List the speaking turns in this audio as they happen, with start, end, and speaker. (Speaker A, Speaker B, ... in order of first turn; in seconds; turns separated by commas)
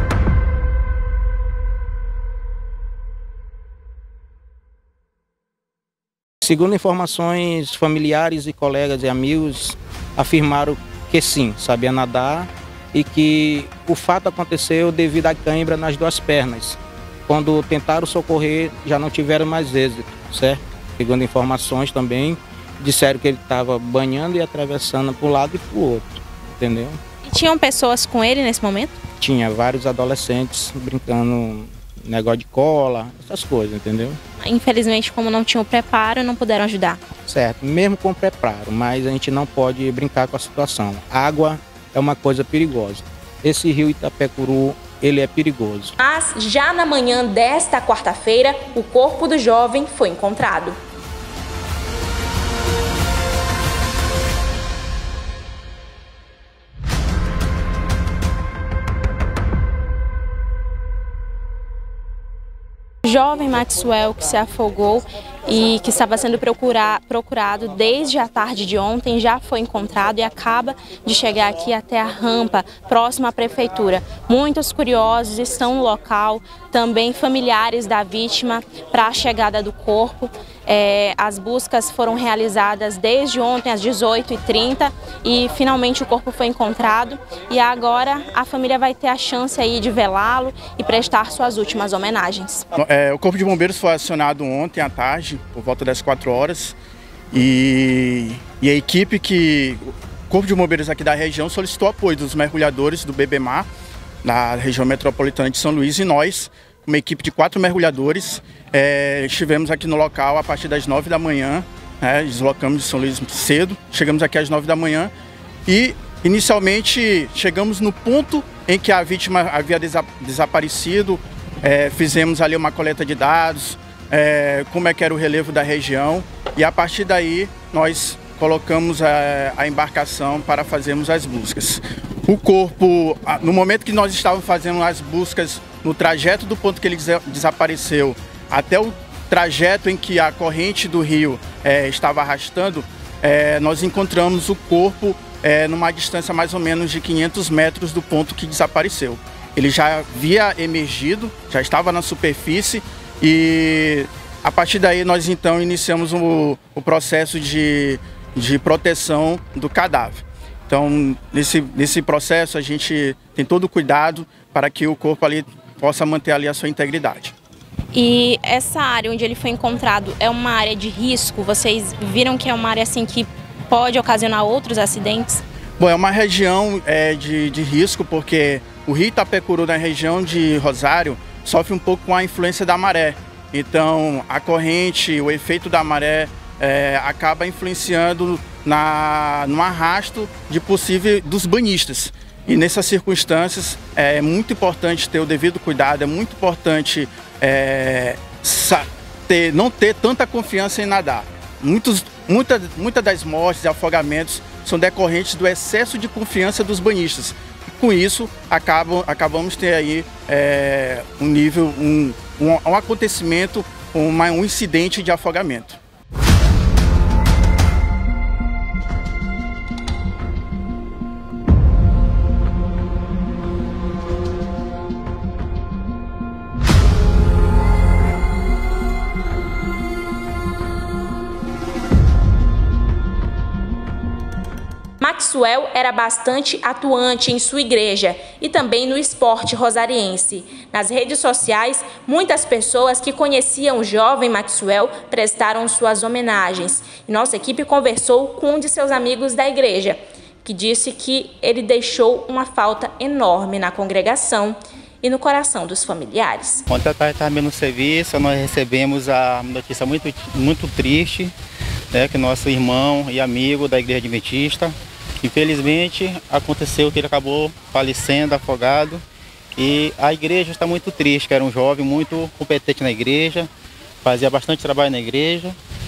Speaker A: 6.5-16.8, Speaker A: 17.3-27.0, Speaker B: 27.2-29.0, Speaker A: 29.2-31.6, Speaker A: 32.1-34.1, Speaker B: 34.4-37.0, Speaker A: 37.3-45.9, Speaker B: 46.0-50.8, Speaker B: 63.0-92.6, Speaker C: 92.8-96.8, Speaker C: 97.3-103.7, Speaker C: 104.2-115.1, Speaker C: 115.7-167.3, Speaker B: 167.9-175.4, Speaker C: 175.8-215.8, Speaker B: 235.0-256.6, Speaker D: 256.7-261.3, Speaker D: 261.9-269.0, Speaker D: 269.6-273.5, Speaker D: 274.0-275.6